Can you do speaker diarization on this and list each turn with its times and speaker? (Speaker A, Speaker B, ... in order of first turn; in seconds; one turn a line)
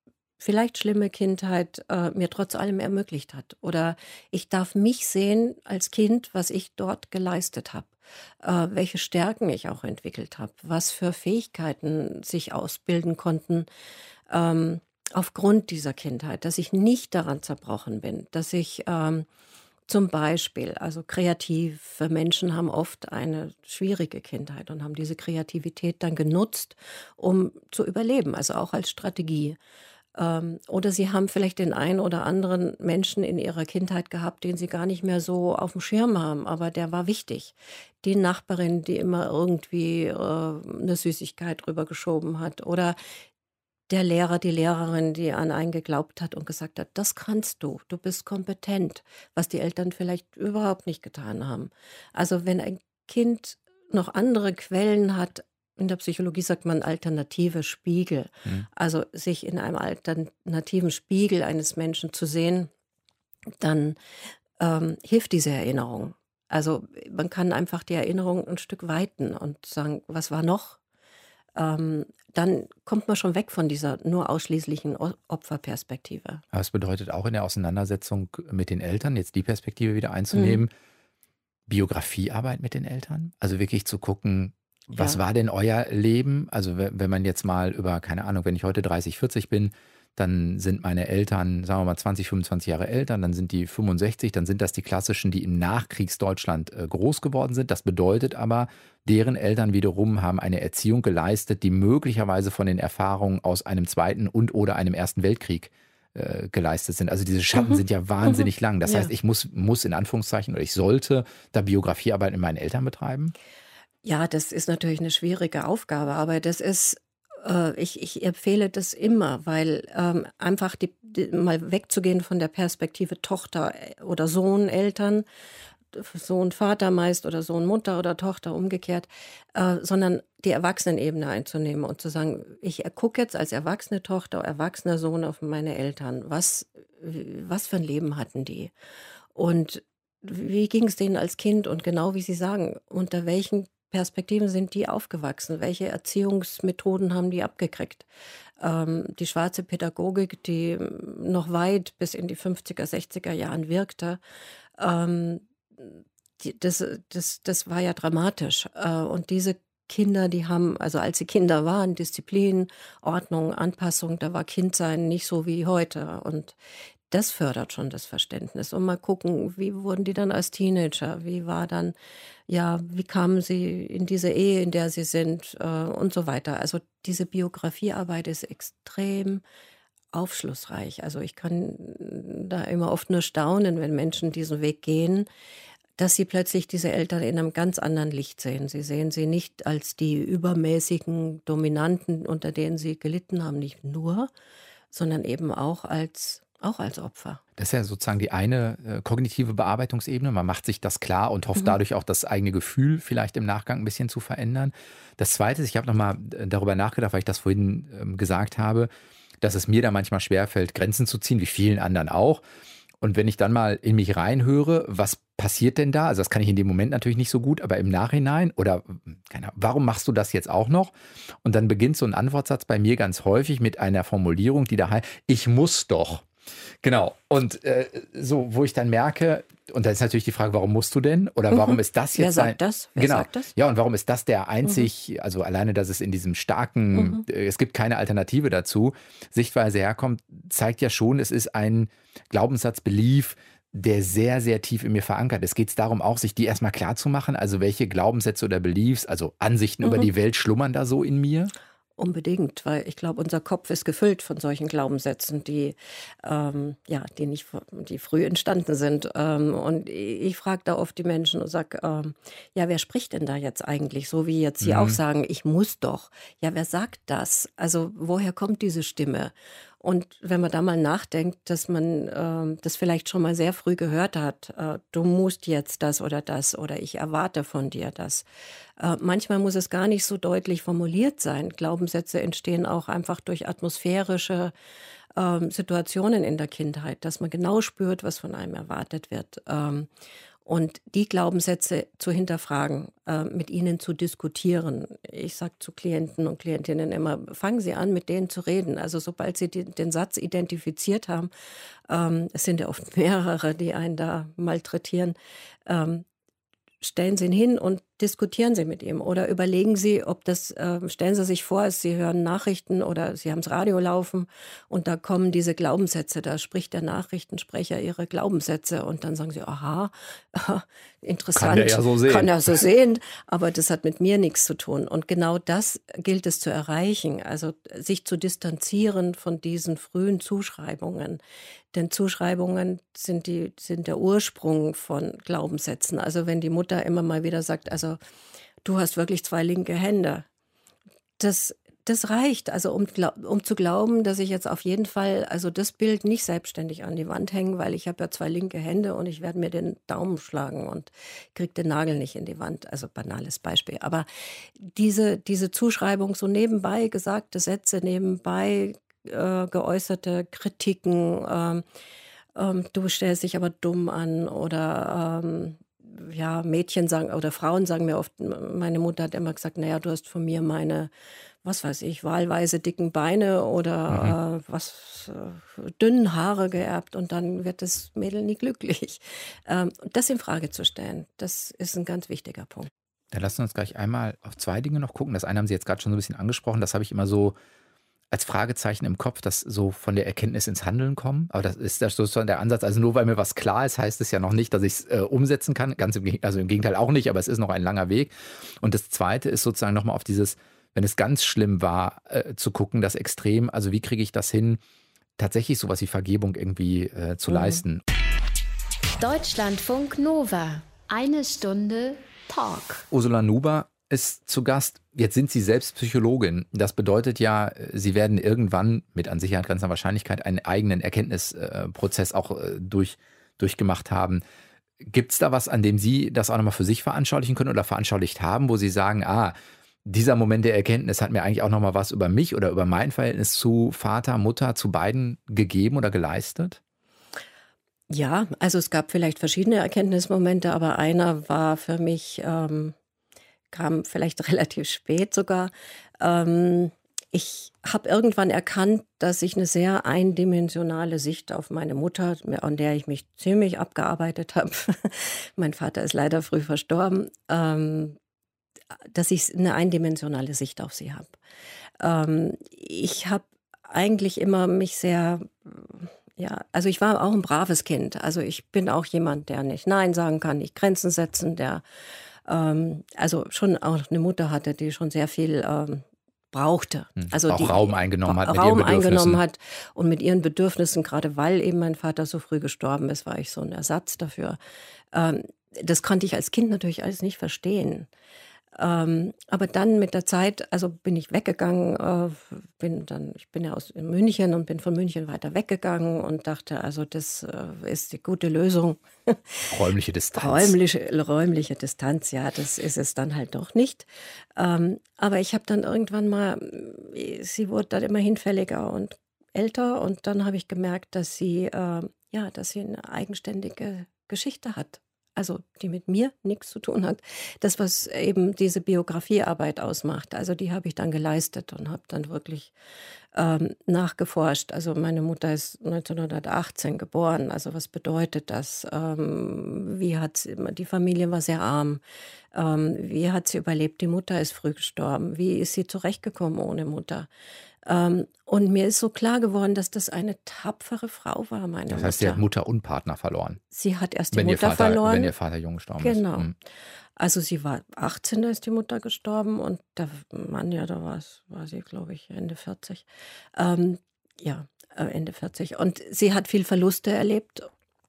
Speaker A: 0.4-13.7
Speaker A: 14.3-19.2
Speaker A: 19.9-29.6
Speaker A: 30.1-43.0
Speaker A: 43.9-62.7
Speaker A: 63.6-64.0
Speaker A: 64.6-70.8
Speaker A: 71.5-76.4
Speaker B: 76.5-80.7
Speaker A: 80.3-80.6
Speaker B: 81.7-113.3
Speaker A: 84.9-85.2
Speaker A: 107.6-109.1
Speaker A: 114.0-125.2
Speaker A: 125.9-138.7
Speaker A: 139.3-148.1
Speaker A: 148.6-154.2
Speaker A: 154.8-166.6
Speaker A: 167.1-171.9
Speaker A: 172.5-179.4
Speaker A: 180.1-185.3
Speaker A: 186.0-194.3
Speaker A: 194.9-197.4
Speaker B: 197.6-208.9
Speaker B: 209.4-212.4
Speaker B: 213.0-226.2
Speaker B: 226.8-251.5
Speaker A: 231.5-233.5
Speaker A: 236.9-237.2
Speaker A: 252.0-278.2
Speaker B: 264.6-265.0
Speaker A: 278.8-284.5
Speaker A: 285.1-289.9
Speaker A: 290.4-301.3
Speaker A: 301.9-306.0
Speaker A: 306.8-331.2
Speaker B: 321.3-322.5
Speaker A: 331.7-338.0
Speaker A: 338.6-340.2
Speaker A: 341.2-354.1
Speaker A: 354.6-361.6
Speaker A: 362.3-370.9
Speaker A: 371.4-382.7
Speaker B: 383.1-387.4
Speaker B: 388.1-404.6
Speaker B: 405.2-407.8
Speaker A: 407.3-407.6
Speaker C: 409.0-412.8
Speaker B: 412.9-424.2
Speaker B: 424.8-436.6
Speaker A: 437.9-442.7
Speaker A: 443.5-458.0
Speaker A: 458.9-461.1
Speaker A: 461.8-471.6
Speaker A: 472.2-484.4
Speaker B: 477.0-479.2
Speaker A: 484.9-487.9
Speaker A: 488.5-499.5
Speaker B: 499.5-500.5
Speaker A: 500.1-522.5
Speaker A: 523.1-531.8
Speaker A: 532.3-537.1
Speaker A: 537.6-542.2
Speaker B: 541.7-543.4
Speaker A: 543.5-545.1
Speaker B: 544.1-546.3
Speaker A: 545.8-546.3
Speaker A: 547.0-557.5